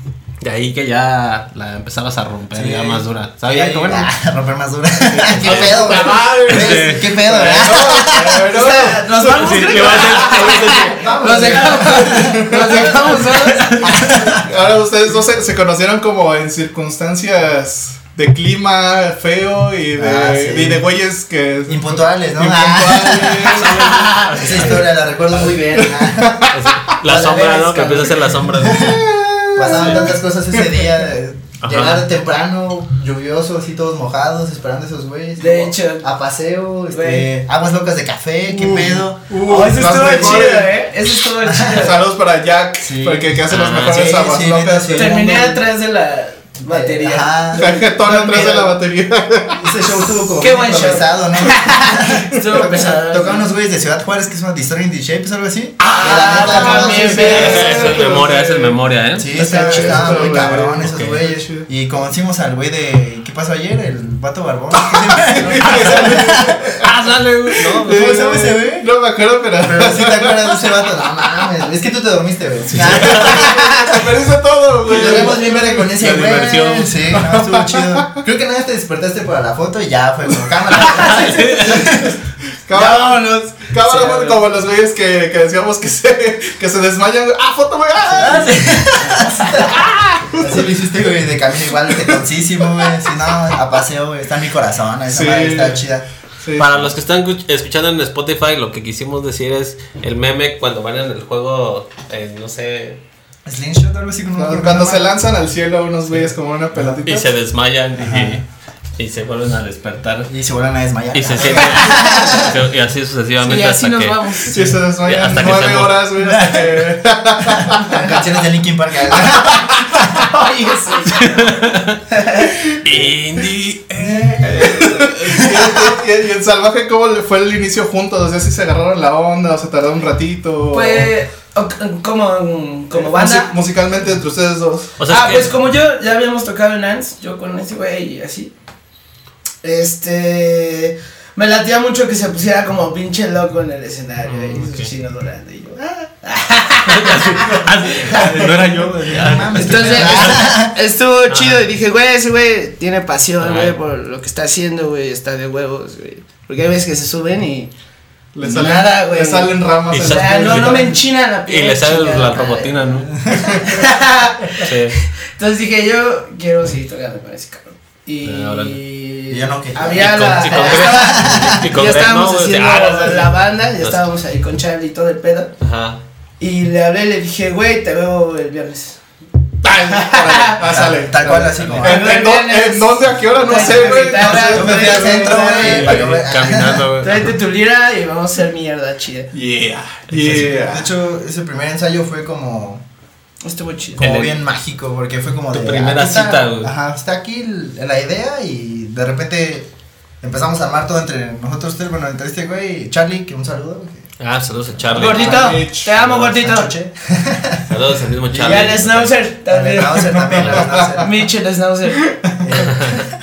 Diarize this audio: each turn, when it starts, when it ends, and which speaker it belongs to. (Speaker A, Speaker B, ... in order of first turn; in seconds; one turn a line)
Speaker A: 0.4-4.1
Speaker B: 2.5-8.5
Speaker C: 5.0-26.7
Speaker A: 5.4-7.1
Speaker D: 8.5-14.2
Speaker A: 9.3-11.0
Speaker B: 10.6-14.5
Speaker B: 19.9-20.9
Speaker B: 21.7-27.6
Speaker A: 23.5-24.9
Speaker A: 26.5-29.0
Speaker D: 27.1-28.2
Speaker B: 28.5-40.5
Speaker C: 28.7-30.9
Speaker A: 31.6-32.1
Speaker D: 35.4-36.1
Speaker D: 36.9-37.3
Speaker C: 38.5-40.7
Speaker D: 39.4-42.0
Speaker C: 41.6-45.3
Speaker B: 42.8-45.6
Speaker A: 43.5-44.1
Speaker D: 44.9-48.8
Speaker B: 46.6-48.5
Speaker C: 47.5-49.7
Speaker B: 49.6-57.9
Speaker D: 50.4-53.5
Speaker D: 55.8-58.0
Speaker C: 55.9-58.8
Speaker A: 57.0-59.3
Speaker B: 59.1-66.8
Speaker C: 59.3-61.6
Speaker D: 59.3-60.5
Speaker A: 60.8-61.2
Speaker C: 64.8-66.9
Speaker D: 65.7-66.1
Speaker D: 66.8-67.7
Speaker A: 67.6-68.0
Speaker C: 67.6-70.6
Speaker B: 67.8-68.9
Speaker B: 69.6-74.0
Speaker C: 72.7-76.0
Speaker A: 72.9-73.3
Speaker D: 73.4-73.8
Speaker B: 74.8-82.2
Speaker A: 75.9-77.0
Speaker C: 77.1-78.2
Speaker A: 80.7-82.0
Speaker C: 82.7-88.8
Speaker D: 82.7-84.4
Speaker B: 82.8-83.2
Speaker B: 88.1-96.0
Speaker C: 89.5-90.7
Speaker C: 95.1-95.8
Speaker C: 96.4-96.7
Speaker A: 96.5-103.0
Speaker B: 103.4-105.1
Speaker C: 104.4-107.3
Speaker A: 107.0-108.4
Speaker B: 108.0-108.4
Speaker A: 109.0-110.3
Speaker B: 110.3-112.6
Speaker A: 111.1-116.0
Speaker D: 111.8-112.4
Speaker D: 113.4-114.6
Speaker C: 114.5-118.2
Speaker B: 116.2-120.3
Speaker C: 119.1-119.8
Speaker D: 120.2-121.4
Speaker A: 121.2-122.0
Speaker D: 122.1-122.5
Speaker A: 122.8-124.5
Speaker C: 122.8-123.1
Speaker B: 124.0-125.9
Speaker C: 124.4-131.1
Speaker D: 130.7-133.6
Speaker C: 132.9-134.9
Speaker A: 135.0-135.5
Speaker D: 135.1-138.5
Speaker D: 139.6-148.2
Speaker A: 144.2-144.9
Speaker A: 146.9-150.5
Speaker B: 148.0-150.7
Speaker D: 149.5-157.7
Speaker A: 151.3-151.6
Speaker A: 153.4-153.7
Speaker C: 158.3-160.9
Speaker D: 158.4-175.5
Speaker A: 159.9-160.9
Speaker A: 161.4-163.1
Speaker B: 163.0-163.7
Speaker C: 163.4-163.8
Speaker A: 164.6-165.0
Speaker A: 168.2-168.8
Speaker B: 169.3-171.7
Speaker A: 169.9-174.0
Speaker A: 175.6-176.0
Speaker D: 176.4-179.0
Speaker C: 179.6-186.0
Speaker D: 179.9-180.6
Speaker B: 180.6-182.2
Speaker D: 181.8-186.0
Speaker B: 183.4-186.9
Speaker A: 185.5-187.3
Speaker D: 187.0-189.3
Speaker C: 189.3-190.9
Speaker B: 190.1-192.8
Speaker D: 193.4-194.0
Speaker B: 194.0-199.7
Speaker A: 194.0-194.4
Speaker A: 195.5-196.7
Speaker B: 200.2-204.1
Speaker A: 204.2-206.4
Speaker B: 204.9-205.6
Speaker D: 204.9-206.7
Speaker C: 205.1-205.9
Speaker B: 206.2-207.7
Speaker A: 207.7-209.1
Speaker B: 208.3-208.8
Speaker D: 208.4-212.2
Speaker B: 209.5-211.3
Speaker C: 210.1-211.0
Speaker A: 210.4-210.6
Speaker C: 212.1-212.4
Speaker B: 212.4-213.2
Speaker A: 212.6-213.0